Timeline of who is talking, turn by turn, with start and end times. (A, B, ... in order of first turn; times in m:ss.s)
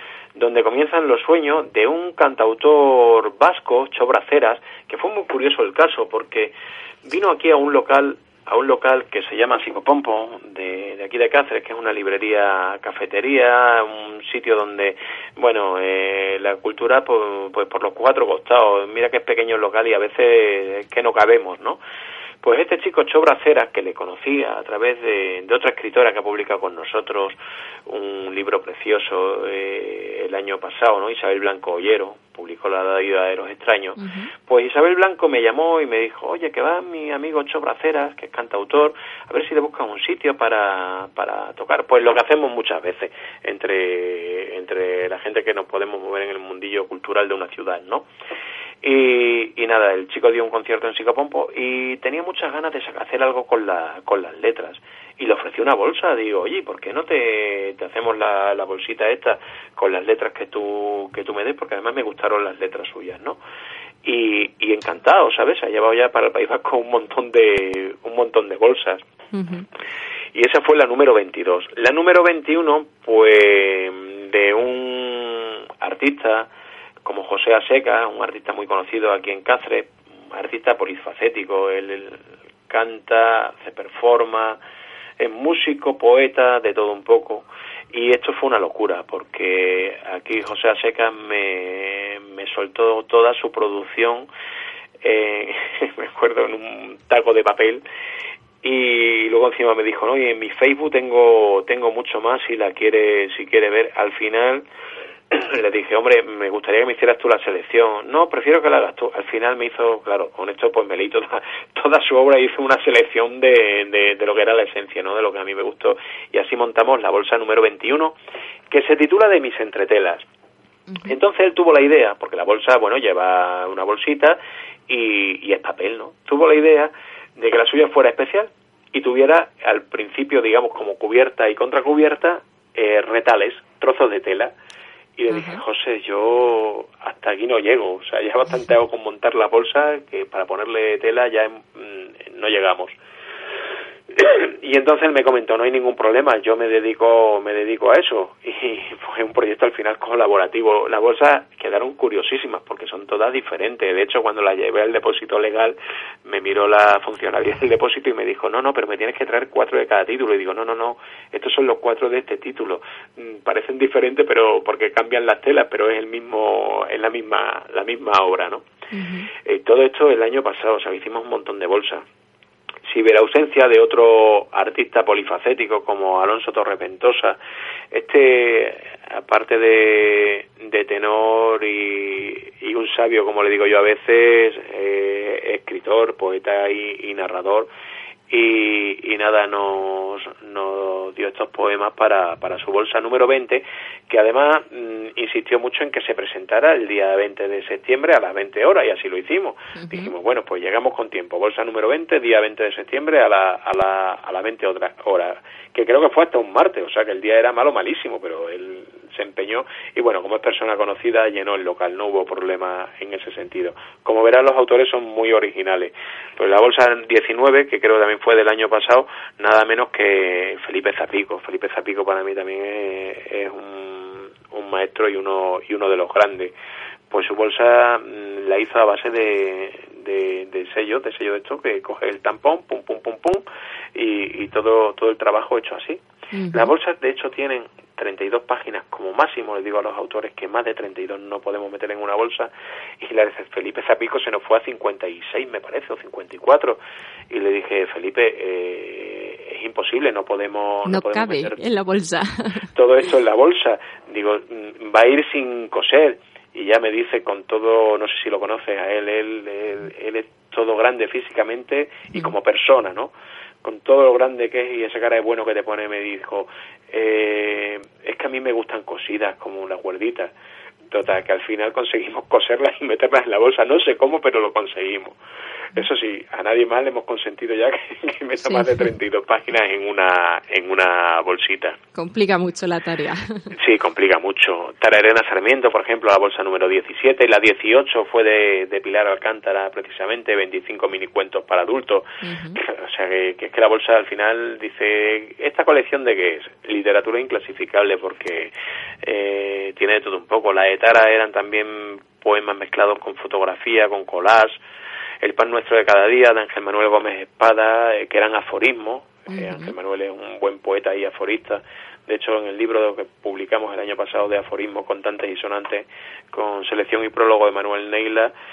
0:00.3-0:21.8 A
0:22.4-0:48.1 A
0:34.0-0:34.3 B
0:48.8-1:03.4 A
1:04.0-1:09.0 A
1:09.3-1:09.6 B
1:10.3-1:16.5 A
1:17.0-1:24.6 A
1:25.2-1:34.3 A
1:35.0-1:37.8 A
1:38.6-1:44.6 A
1:45.3-1:58.2 A
1:58.7-2:00.2 A
2:00.9-2:01.2 B
2:01.0-2:14.5 A
2:15.2-2:22.9 A
2:15.3-2:15.6 B
2:24.1-2:48.6 A
2:48.9-2:49.3 B
2:49.4-2:52.0 A
2:52.9-2:57.4 A
2:57.9-3:07.7 A
3:08.3-3:46.5 A
3:19.7-3:20.1 B
3:47.1-4:06.8 A
3:56.3-3:56.7 B
4:07.3-4:11.6 A
4:10.9-4:12.7 B
4:12.7-4:23.1 A
4:23.6-4:30.3 A
4:30.9-4:35.2 A
4:35.7-4:41.8 A
4:38.4-4:38.9 B
4:41.9-4:43.5 B
4:43.5-5:04.5 A
4:52.2-4:52.6 B
5:05.2-5:18.3 A
5:09.3-5:09.7 B